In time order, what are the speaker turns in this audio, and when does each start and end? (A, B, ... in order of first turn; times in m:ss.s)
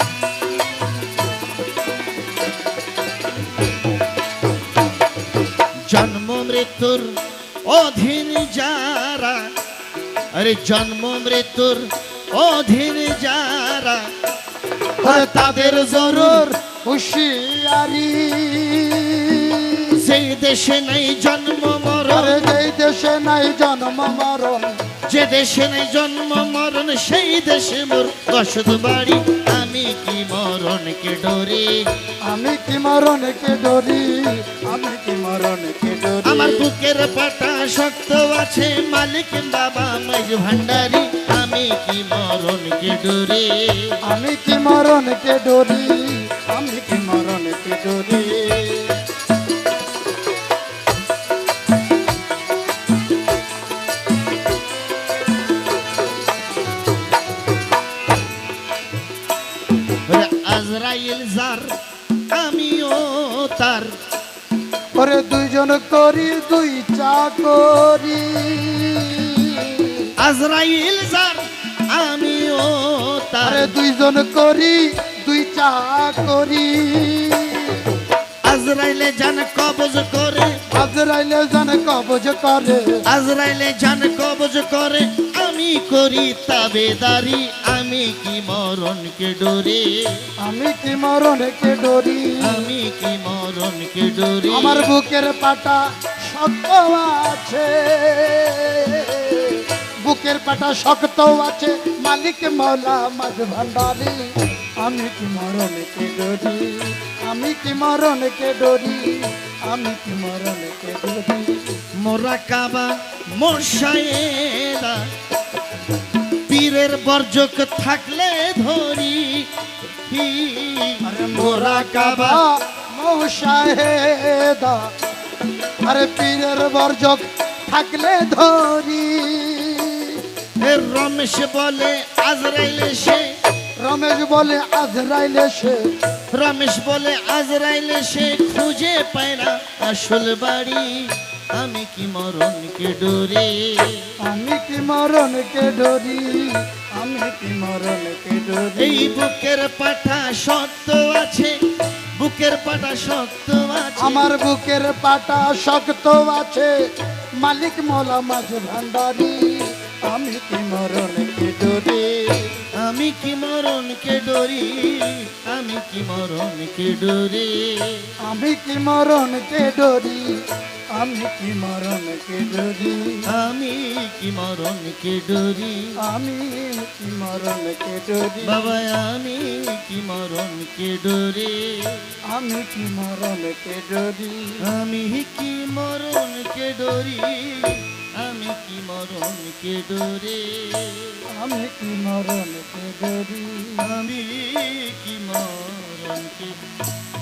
0:05.9-0:07.1 A
0:07.6-0:09.5 A
0:10.3-0:14.0 A
0:15.0-0:16.4 A
0:15.0-0:20.0 B
0:19.9-0:22.4 A
0:22.1-0:24.8 B
0:25.1-0:31.8 A
0:32.3-0:36.7 B
0:36.2-0:44.0 A
0:44.0-0:48.9 B
1:00.1-1:01.8 A
1:02.3-1:04.0 A
1:05.0-1:10.1 B
1:10.2-1:13.7 A
1:13.4-1:17.8 B
1:18.4-1:20.6 A
1:20.7-1:23.0 B
1:23.1-1:30.3 A
1:30.4-1:32.6 B
1:32.4-1:34.9 A
1:34.5-1:44.3 B
1:44.8-1:51.7 B
1:52.0-1:55.1 A
1:56.5-1:59.5 A
2:00.1-2:02.4 A
2:01.0-2:04.9 B
2:05.8-2:10.2 B
2:10.6-2:13.3 A
2:13.8-2:15.8 B
2:16.3-2:24.0 A
2:24.2-2:29.2 B
2:28.8-2:31.5 A
2:32.2-2:34.2 A
2:34.0-2:36.7 B
2:37.4-2:42.6 B
2:42.8-2:48.1 A
2:48.2-2:50.4 B
2:50.9-2:53.2 B
2:53.3-2:56.0 A
2:56.0-2:58.6 B
2:58.4-3:02.1 A
3:02.3-3:04.6 B
3:04.6-3:11.2 A
3:11.3-3:13.9 B
3:13.8-3:16.6 A